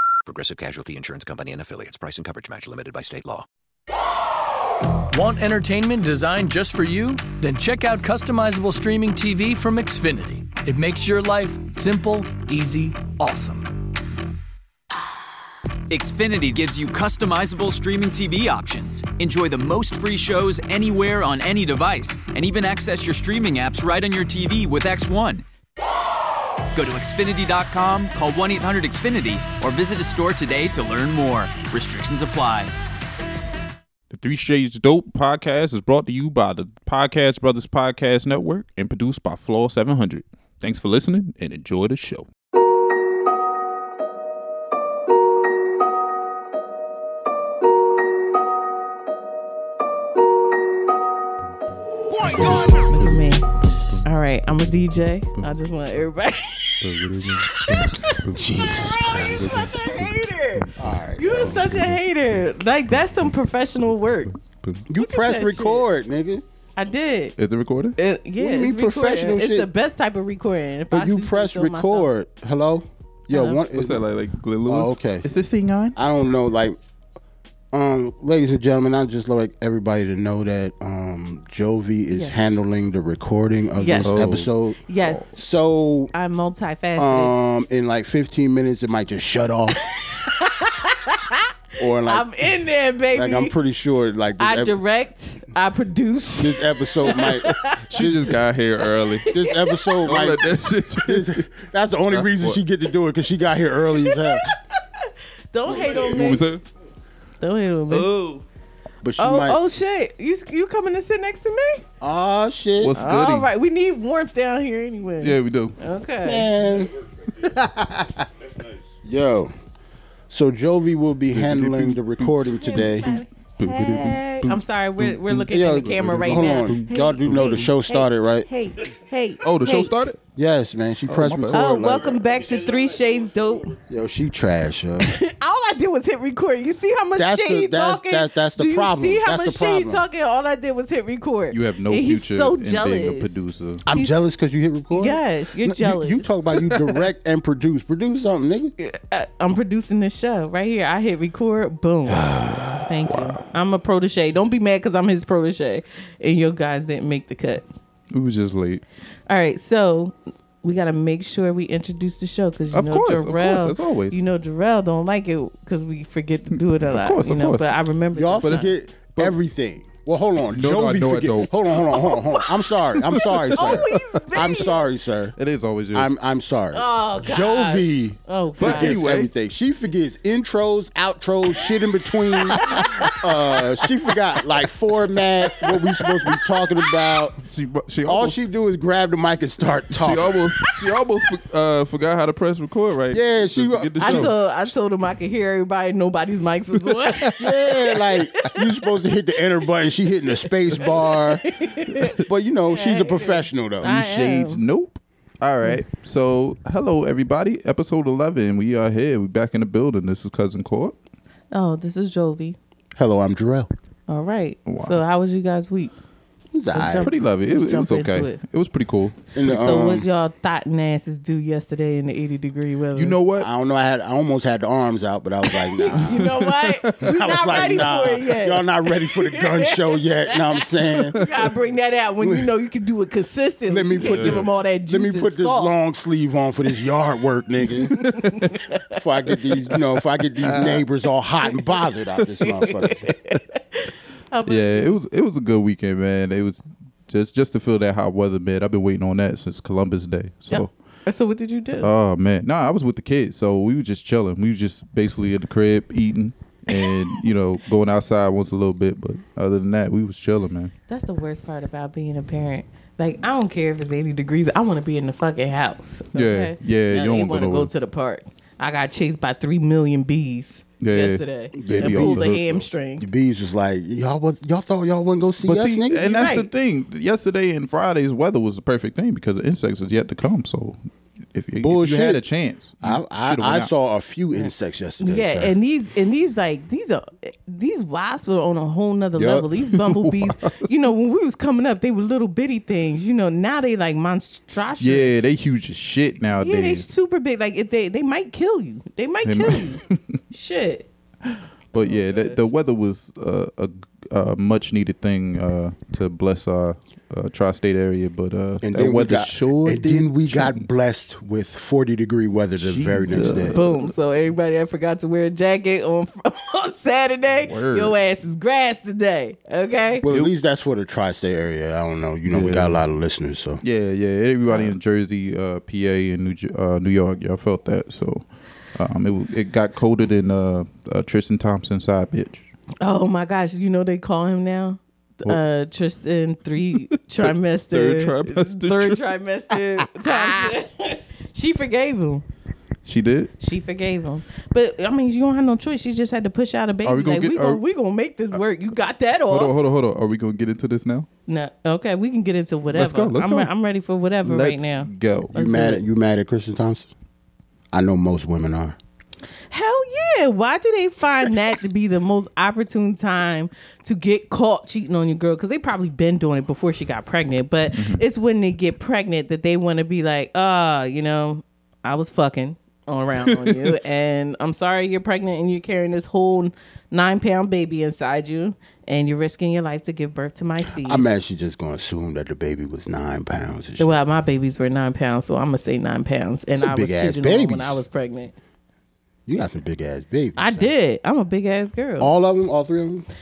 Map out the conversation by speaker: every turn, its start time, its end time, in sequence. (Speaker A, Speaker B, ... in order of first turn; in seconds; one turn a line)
Speaker A: 0.3-3.5
Speaker B: 5.1-13.7
Speaker C: 15.9-25.4
Speaker C: 26.7-32.7
Speaker D: 34.1-42.3
Speaker D: 52.1-53.2
Speaker E: 52.2-64.3
Speaker D: 56.8-60.8
Speaker F: 58.4-59.6
Speaker F: 60.8-61.7
Speaker D: 61.4-62.0
Speaker D: 64.6-64.8
Speaker F: 64.9-66.4
Speaker E: 65.0-65.9
Speaker E: 66.8-67.3
Speaker D: 67.4-68.0
Speaker E: 68.0-72.1
Speaker F: 68.4-69.7
Speaker F: 70.9-74.0
Speaker E: 73.3-73.6
Speaker D: 73.7-76.0
Speaker F: 74.7-75.3
Speaker F: 76.0-76.8
Speaker F: 77.7-86.1
Speaker E: 83.8-84.3
Speaker D: 84.0-84.5
Speaker E: 84.9-85.4
Speaker E: 86.1-87.3
Speaker F: 87.0-89.8
Speaker E: 89.9-91.5
Speaker F: 91.8-92.3
Speaker E: 92.0-93.5
Speaker F: 93.1-94.8
Speaker E: 94.4-97.8
Speaker F: 96.4-98.4
Speaker D: 97.9-99.3
Speaker E: 99.1-100.0
Speaker F: 99.3-104.5
Speaker D: 100.0-101.5
Speaker D: 102.1-102.6
Speaker E: 104.1-106.5
Speaker D: 105.7-106.6
Speaker E: 107.4-108.1
Speaker D: 107.9-108.4
Speaker F: 109.0-109.6
Speaker E: 109.2-111.8
Speaker F: 112.0-113.0
Speaker D: 112.8-113.5
Speaker E: 113.0-116.5
Speaker D: 115.2-115.8
Speaker F: 116.2-117.0
Speaker D: 117.4-118.3
Speaker F: 119.0-119.5
Speaker F: 120.3-123.2
Speaker D: 121.3-123.0
Speaker E: 122.6-129.9
Speaker D: 123.6-127.5
Speaker F: 125.5-128.5
Speaker D: 129.4-130.2
Speaker F: 130.4-132.2
Speaker D: 131.1-131.6
Speaker E: 131.5-133.8
Speaker F: 133.9-135.1
Speaker E: 135.0-144.3
Speaker F: 137.2-140.0
Speaker D: 141.5-143.8
Speaker F: 143.9-148.7
Speaker E: 144.9-146.4
Speaker E: 148.8-152.2
Speaker E: 152.8-157.7
Speaker D: 153.1-153.4
Speaker D: 158.1-158.8
Speaker E: 159.3-168.7
Speaker D: 162.7-164.2
Speaker D: 166.9-167.7
Speaker F: 168.2-175.4
Speaker D: 170.5-171.5
Speaker D: 173.0-174.2
Speaker E: 173.6-174.8
Speaker D: 175.4-176.1
Speaker F: 175.9-187.3
Speaker E: 176.7-179.0
Speaker D: 178.6-179.3
Speaker E: 182.5-183.2
Speaker D: 182.6-183.2
Speaker E: 185.5-186.3
Speaker D: 187.4-188.4
Speaker F: 188.1-190.4
Speaker D: 189.9-194.3
Speaker F: 193.1-194.3
Speaker E: 194.0-199.6
Speaker F: 197.4-201.4
Speaker E: 200.4-204.6
Speaker F: 202.2-203.9
Speaker D: 203.8-211.0
Speaker E: 211.5-212.6
Speaker F: 212.9-213.7
Speaker E: 214.1-215.9
Speaker D: 214.7-215.0
Speaker F: 216.5-217.1
Speaker E: 216.7-218.4
Speaker D: 217.0-219.3
Speaker F: 219.3-220.1
Speaker E: 219.4-223.2
Speaker D: 222.9-223.5
Speaker F: 223.4-226.3
Speaker E: 225.5-235.7
Speaker D: 226.6-227.8
Speaker F: 227.0-231.2
Speaker F: 232.2-232.5
Speaker F: 233.7-238.0
Speaker D: 234.0-234.5
Speaker E: 238.0-239.0
Speaker D: 238.0-238.5
Speaker F: 239.0-243.1
Speaker D: 240.4-240.8
Speaker E: 242.4-244.9
Speaker D: 244.5-250.7
Speaker E: 250.5-251.9
Speaker D: 251.8-260.7
Speaker E: 260.9-273.1
Speaker D: 266.1-267.7
Speaker D: 270.8-272.6
Speaker F: 271.6-272.4
Speaker F: 273.0-276.1
Speaker D: 275.4-280.8
Speaker E: 276.1-276.5
Speaker D: 281.3-283.7
Speaker F: 281.6-282.2
Speaker F: 282.8-285.5
Speaker E: 285.0-295.2
Speaker F: 289.2-289.5
Speaker D: 289.8-290.6
Speaker D: 294.8-296.9
Speaker E: 296.4-300.9
Speaker D: 299.2-300.2
Speaker E: 301.7-302.4
Speaker D: 301.7-310.6
Speaker F: 308.6-313.6
Speaker D: 312.6-313.9
Speaker E: 313.5-320.0
Speaker D: 317.4-318.0
Speaker F: 320.0-323.6
Speaker D: 320.0-320.3
Speaker D: 322.3-322.8
Speaker D: 323.6-328.2
Speaker D: 328.8-332.5
Speaker E: 332.8-342.2
Speaker D: 336.8-339.0
Speaker D: 339.8-340.5
Speaker D: 342.9-343.3
Speaker E: 343.4-349.6
Speaker D: 346.9-347.6
Speaker D: 349.3-351.1
Speaker E: 351.3-355.8
Speaker D: 352.7-353.5
Speaker D: 354.2-355.8
Speaker F: 355.3-356.9
Speaker F: 357.7-358.8
Speaker E: 359.5-381.1
Speaker D: 367.7-368.0
Speaker D: 373.3-373.7
Speaker F: 380.7-383.9
Speaker E: 383.8-388.3
Speaker F: 386.6-387.8
Speaker F: 389.3-390.7
Speaker E: 390.4-392.1
Speaker F: 392.0-393.1